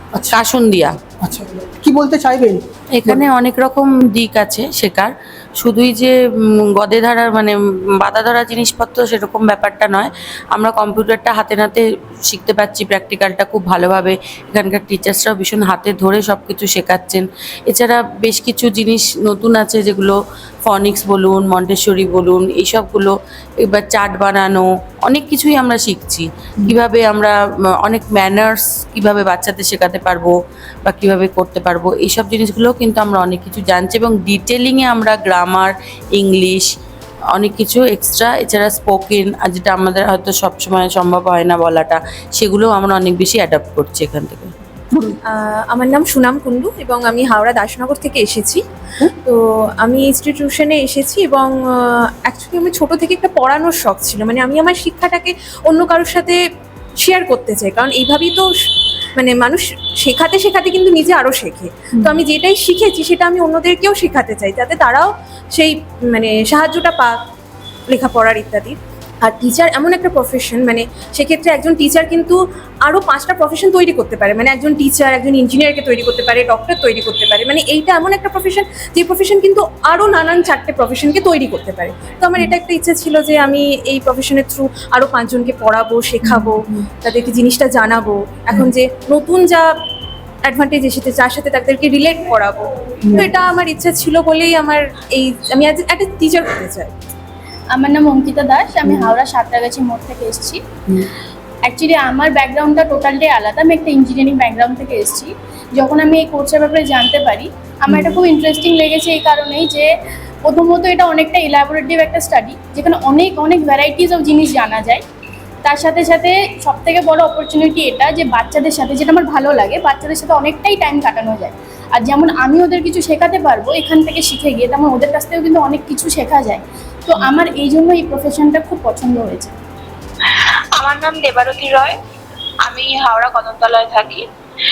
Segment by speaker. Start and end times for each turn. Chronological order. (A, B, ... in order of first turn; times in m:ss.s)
0:00.1-0:00.4 A
0:00.3-0:01.0 B
0:01.2-0:03.3 A
0:02.9-0:36.7 B
0:37.4-0:44.5 B
0:44.9-0:45.2 A
0:45.2-0:48.6 C
0:49.2-0:56.4 C
0:57.0-0:58.5 C
0:59.2-1:07.2 C
1:07.9-1:29.7 C
1:26.2-1:26.9 A
1:30.4-1:37.0 C
1:33.0-1:33.4 A
1:37.7-1:40.6 D
1:38.8-1:39.2 A
1:41.6-1:49.9 D
1:47.9-1:48.2 A
1:50.4-1:55.0 D
1:55.6-2:09.6 D
2:10.4-2:12.0 E
2:12.6-2:14.2 E